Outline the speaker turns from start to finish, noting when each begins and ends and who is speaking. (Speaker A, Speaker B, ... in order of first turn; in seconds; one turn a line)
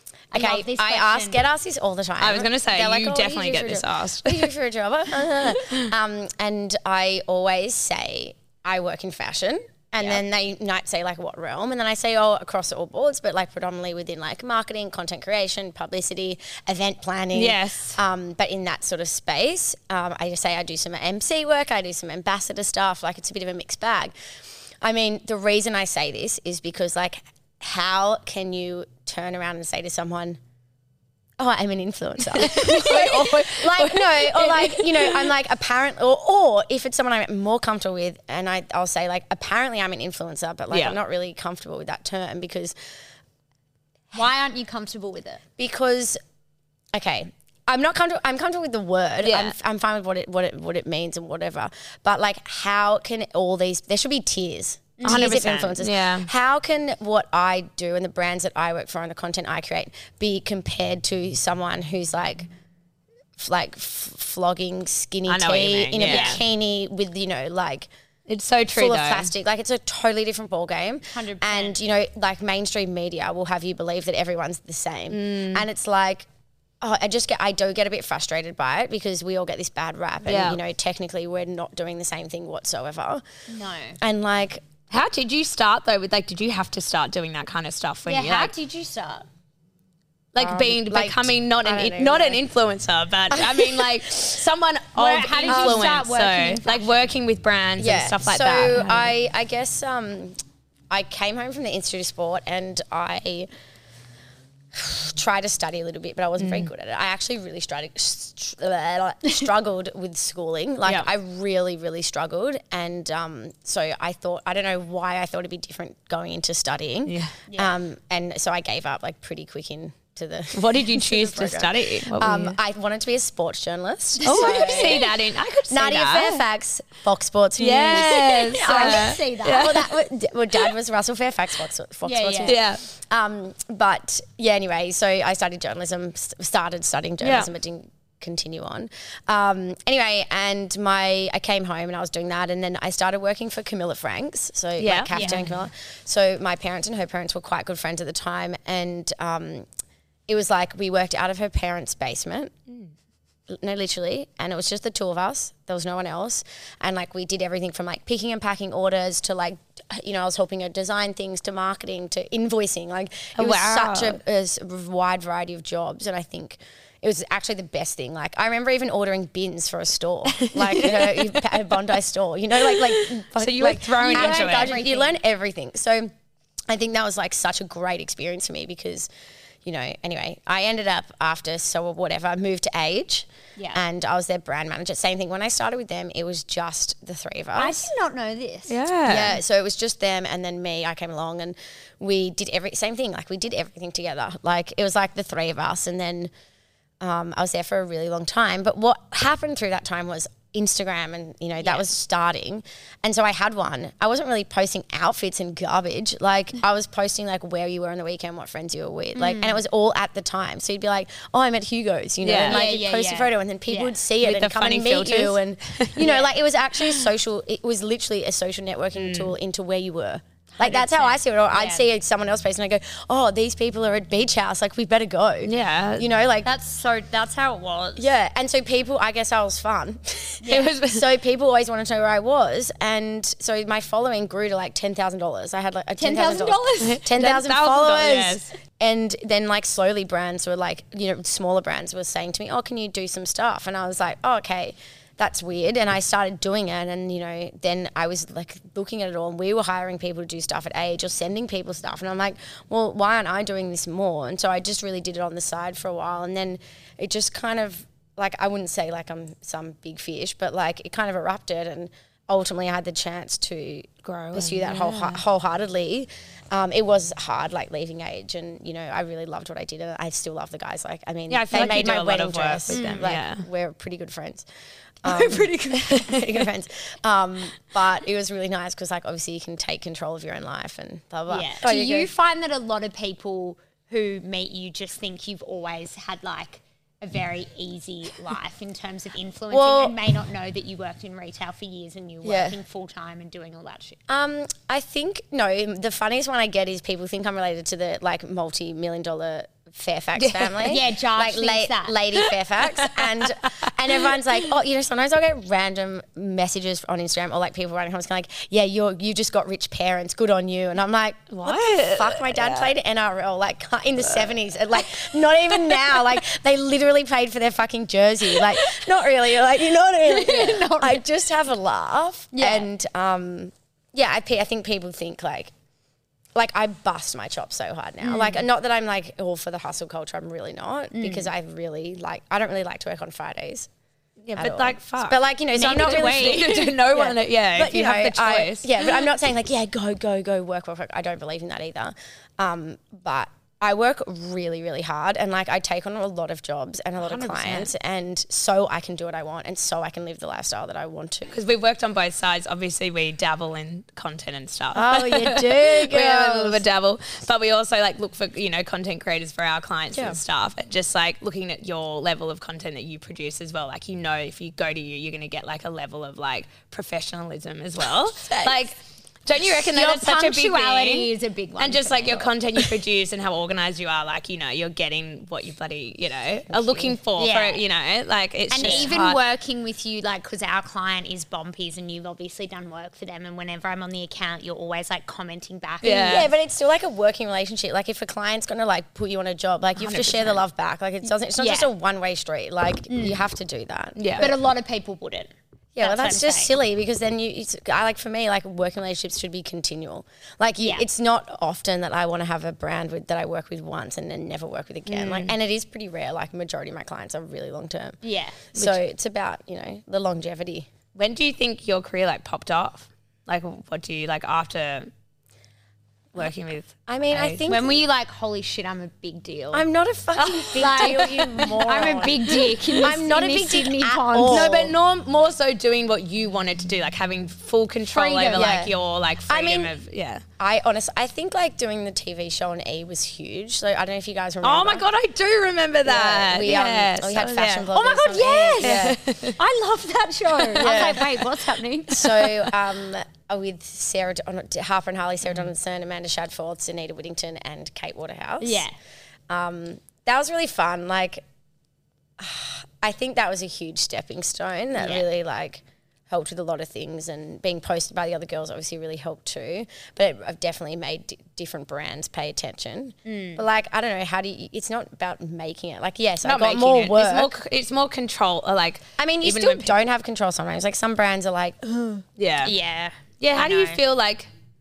Speaker A: 0.3-1.4
Speaker B: 0.3-24.1
Speaker C: 2.2-4.5
Speaker C: 17.3-18.0
Speaker B: 24.8-30.4
Speaker B: 31.4-42.8
Speaker C: 32.3-35.3
Speaker A: 32.5-33.1
Speaker A: 44.1-45.4
Speaker B: 45.6-46.2
Speaker B: 46.9-62.5
Speaker C: 49.2-49.5
Speaker A: 55.0-55.4
Speaker C: 55.0-56.3
Speaker B: 63.4-67.9
Speaker C: 65.3-66.4
Speaker A: 66.0-66.4
Speaker C: 68.3-69.3
Speaker B: 68.7-76.3
Speaker A: 71.1-71.8
Speaker C: 75.1-75.7
Speaker B: 76.8-83.2
Speaker C: 80.3-80.6
Speaker A: 83.5-84.0
Speaker B: 84.0-84.6
Speaker C: 84.9-88.5
Speaker A: 88.1-89.3
Speaker C: 90.3-99.1
Speaker B: 90.4-92.4
Speaker B: 93.3-94.3
Speaker A: 95.0-97.1
Speaker B: 95.5-95.9
Speaker B: 97.8-100.4
Speaker B: 100.9-103.5
Speaker B: 104.7-125.1
Speaker C: 106.4-106.7
Speaker C: 117.0-117.3
Speaker A: 117.5-117.8
Speaker C: 120.5-122.6
Speaker A: 124.2-125.1
Speaker C: 124.2-126.4
Speaker B: 125.7-149.7
Speaker C: 127.6-129.9
Speaker A: 127.9-129.8
Speaker A: 132.0-132.6
Speaker C: 132.5-132.8
Speaker C: 137.2-137.5
Speaker C: 144.8-145.5
Speaker A: 145.1-145.4
Speaker B: 150.3-152.5
Speaker B: 153.5-176.1
Speaker C: 163.3-164.2
Speaker C: 170.3-171.5
Speaker C: 172.6-174.8
Speaker A: 174.0-175.2
Speaker B: 176.7-179.1
Speaker B: 179.6-187.9
Speaker A: 183.6-183.8
Speaker A: 187.6-188.8
Speaker C: 188.7-189.4
Speaker B: 189.1-196.3
Speaker B: 197.0-226.5
Speaker A: 209.2-209.6
Speaker C: 212.2-212.6
Speaker A: 212.4-213.9
Speaker C: 214.2-216.1
Speaker A: 216.0-216.4
Speaker C: 218.9-219.3
Speaker A: 220.6-221.8
Speaker C: 225.4-226.1
Speaker A: 226.4-228.1
Speaker B: 228.0-274.5
Speaker A: 230.4-230.7
Speaker C: 230.5-231.1
Speaker A: 236.0-237.0
Speaker C: 236.8-238.5
Speaker C: 264.0-265.2
Speaker C: 271.3-273.4
Speaker A: 272.7-273.1
Speaker B: 275.0-282.1
Speaker A: 275.1-276.2
Speaker C: 275.8-276.4
Speaker A: 281.3-294.0
Speaker B: 289.5-290.0
Speaker B: 292.2-292.6
Speaker B: 294.1-325.5
Speaker C: 300.2-300.6
Speaker A: 300.6-302.0
Speaker C: 302.8-304.1
Speaker C: 311.3-312.7
Speaker C: 314.0-314.3
Speaker A: 320.1-321.0
Speaker A: 322.3-322.7
Speaker B: 326.4-333.7
Speaker A: 330.9-331.3
Speaker C: 334.2-338.9
Speaker B: 334.4-351.3
Speaker A: 335.5-336.7
Speaker C: 347.0-347.7
Speaker C: 351.3-379.2
Speaker B: 354.8-356.6
Speaker B: 368.2-368.6
Speaker A: 369.6-372.3
Speaker B: 376.5-377.0
Speaker A: 377.2-377.6
Speaker A: 378.5-386.3
Speaker B: 378.6-378.9
Speaker C: 385.8-386.3
Speaker B: 386.0-394.4
Speaker C: 389.8-390.4
Speaker A: 391.4-391.7
Speaker A: 392.9-393.2
Speaker C: 394.0-394.3
Speaker A: 394.2-396.5
Speaker B: 395.8-408.0
Speaker A: 400.6-400.9
Speaker A: 404.9-405.3
Speaker A: 408.0-408.4
Speaker B: 408.5-410.7
Speaker C: 410.9-414.9
Speaker C: 416.1-417.4
Speaker B: 416.9-417.8
Speaker A: 417.5-419.6
Speaker B: 419.5-424.8
Speaker C: 420.2-421.7
Speaker A: 420.6-424.5
Speaker C: 422.3-422.5
Speaker C: 424.3-430.2
Speaker A: 427.9-428.6
Speaker B: 428.3-428.7
Speaker B: 429.3-429.7
Speaker B: 430.4-434.9
Speaker C: 434.4-437.7
Speaker B: 435.9-439.0
Speaker A: 437.7-442.3
Speaker C: 438.6-439.4
Speaker B: 440.5-441.2
Speaker B: 441.9-448.6
Speaker A: 448.4-448.7
Speaker B: 449.3-451.2
Speaker B: 452.2-467.3
Speaker A: 454.8-455.1
Speaker A: 463.1-463.4
Speaker C: 466.2-469.8
Speaker B: 469.0-472.0
Speaker C: 472.2-472.5
Speaker A: 472.4-473.8
Speaker C: 473.2-474.3